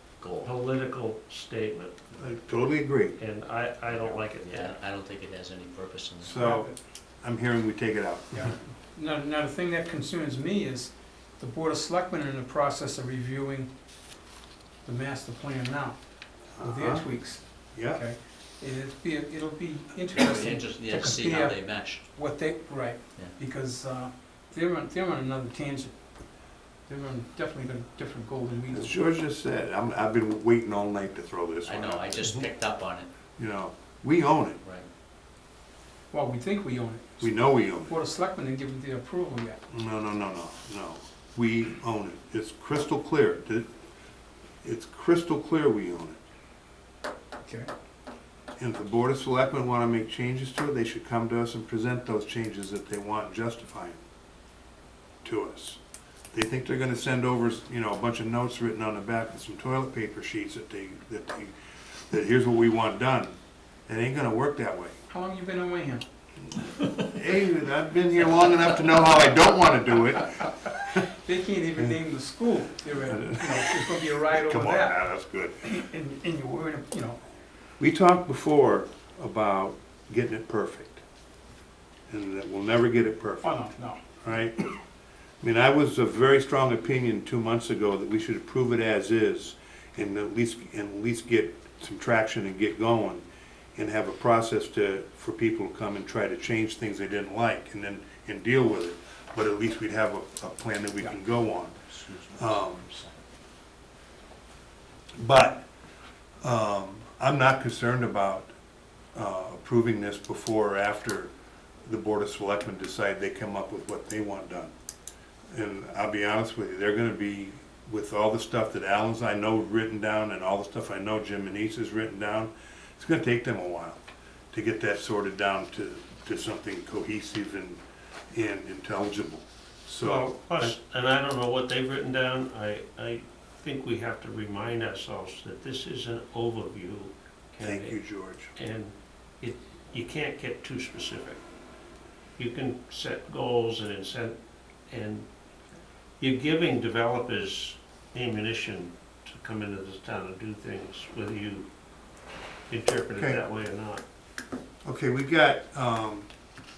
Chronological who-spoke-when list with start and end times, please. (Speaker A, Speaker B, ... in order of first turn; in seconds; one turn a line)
Speaker A: 0.2-0.5
Speaker B: 0.4-2.0
Speaker C: 2.2-3.2
Speaker B: 3.2-4.8
Speaker A: 3.9-6.3
Speaker C: 6.2-8.6
Speaker D: 6.3-6.7
Speaker D: 8.3-13.7
Speaker D: 14.8-16.0
Speaker C: 16.6-17.1
Speaker D: 16.6-25.9
Speaker C: 17.7-18.0
Speaker A: 20.1-22.0
Speaker D: 26.9-28.9
Speaker C: 28.7-32.4
Speaker A: 31.6-33.1
Speaker C: 33.4-34.6
Speaker D: 36.1-39.6
Speaker C: 37.2-38.0
Speaker C: 39.7-43.7
Speaker C: 44.6-46.2
Speaker C: 48.6-54.0
Speaker C: 55.2-55.8
Speaker C: 56.3-65.0
Speaker D: 65.1-66.0
Speaker C: 66.9-70.5
Speaker D: 71.1-75.0
Speaker C: 73.0-75.7
Speaker D: 75.6-77.2
Speaker C: 77.8-81.0
Speaker C: 82.1-83.6
Speaker D: 83.4-84.0
Speaker C: 84.2-84.7
Speaker C: 85.4-101.8
Speaker A: 101.8-103.2
Speaker C: 102.3-102.9
Speaker C: 105.2-105.7
Speaker C: 106.4-108.5
Speaker C: 109.1-111.3
Speaker C: 111.8-114.7
Speaker C: 115.5-124.0
Speaker C: 124.5-127.8
Speaker C: 128.3-130.7
Speaker B: 130.0-138.0
Speaker C: 137.6-138.5
Speaker B: 138.5-141.4
Speaker B: 142.4-145.3
Speaker B: 146.2-151.7
Speaker B: 152.7-154.0
Speaker C: 153.2-153.4
Speaker C: 154.8-156.3